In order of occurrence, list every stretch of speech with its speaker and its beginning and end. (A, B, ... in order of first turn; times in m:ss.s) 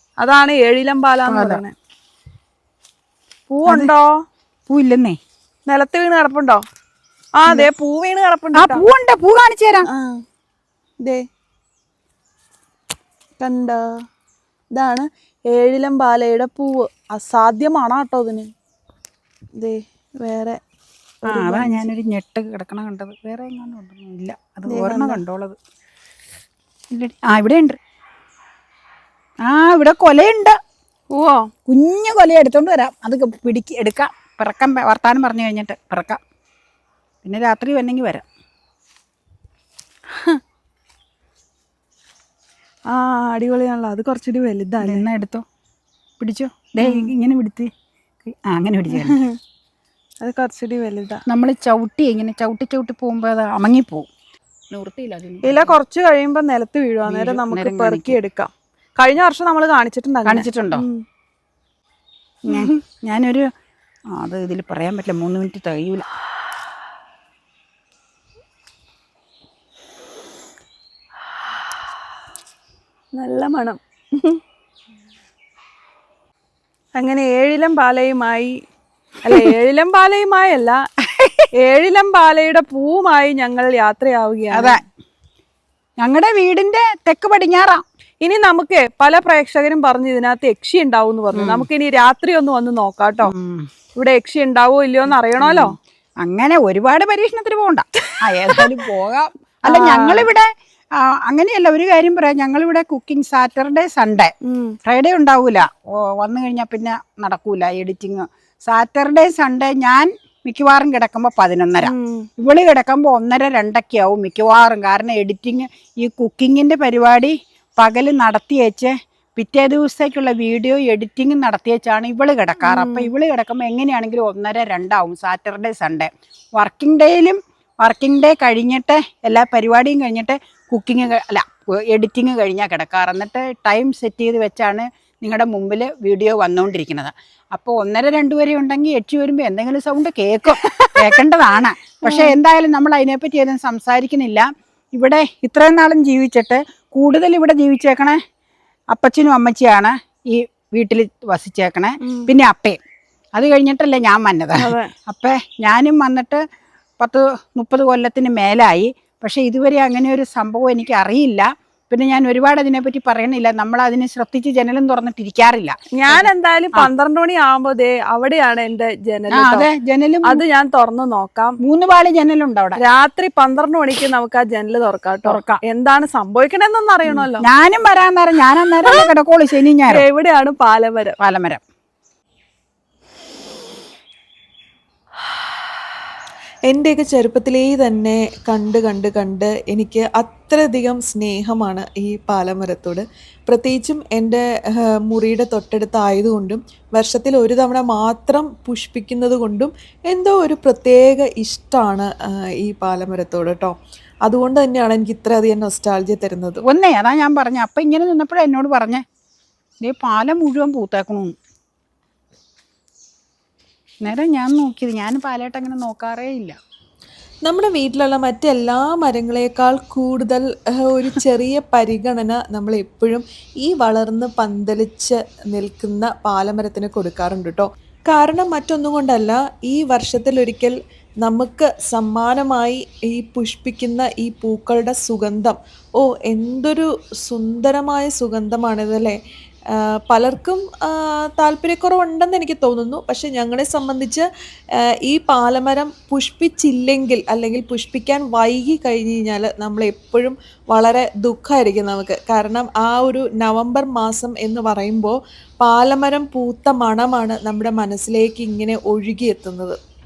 0:00.2-0:01.7 A
0:01.2-0:01.6 B
0:03.5-0:04.1 A
0:03.6-0:03.9 B
0:04.7-0:05.2 B
0:05.7-0:06.6 A
0:07.4-0:08.8 A
0:08.5-0:09.9 B
0:09.9-0:10.2 A
0:13.4-0:13.8 A
0:14.7-0:18.5 A
0:19.6-0:20.6 A
0:21.2-0:21.8 A
0:21.3-0:25.6 B
0:24.7-0:25.2 A
0:26.9-0:27.8 B
0:29.4-0:30.6 B
0:31.1-0:31.4 A
0:31.7-0:36.2 B
0:37.2-0:38.2 B
0:42.9-0:45.0 A
0:44.8-0:45.4 B
0:46.2-0:47.7 B
0:46.8-0:47.1 A
0:48.2-0:49.2 B
0:48.9-0:49.3 A
0:50.2-0:51.2 A
0:51.3-0:54.1 B
0:54.7-0:55.8 B
0:55.4-1:01.0 A
0:57.1-0:58.2 B
1:00.2-1:00.8 B
1:02.5-1:03.5 B
1:02.5-1:02.7 A
1:04.1-1:06.1 B
1:13.1-1:14.4 A
1:17.0-1:18.6 A
1:19.2-1:20.8 A
1:21.1-1:21.5 B
1:21.6-1:24.8 A
1:24.5-1:24.8 B
1:26.0-1:27.8 B
1:28.2-1:33.3 A
1:31.3-1:31.6 B
1:33.2-1:33.7 B
1:34.0-1:35.7 A
1:35.4-1:44.3 B
1:39.7-1:40.3 A
1:44.5-1:44.8 A
1:44.8-2:28.2 B
1:51.8-1:52.3 A
2:02.6-2:03.1 A
2:20.6-2:20.9 A
2:22.0-2:22.4 A
2:28.9-2:32.8 B
2:32.0-2:32.3 A
2:33.4-2:36.4 B
2:34.6-2:34.9 A
2:37.0-2:46.9 B
2:46.0-2:49.7 A
2:49.3-2:50.4 B
2:50.2-2:51.6 A
2:51.6-2:52.8 B
2:52.8-2:57.4 A
2:55.2-2:55.6 B
2:57.0-3:00.0 B
2:59.9-3:01.2 A
3:01.2-3:01.6 B
3:06.7-3:23.7 C
3:24.2-3:26.6 C
3:26.7-3:29.0 B
3:29.8-3:31.3 B
3:34.0-3:36.6 B
3:37.5-3:59.2 C
3:59.7-4:04.2 C
4:05.0-4:19.8 C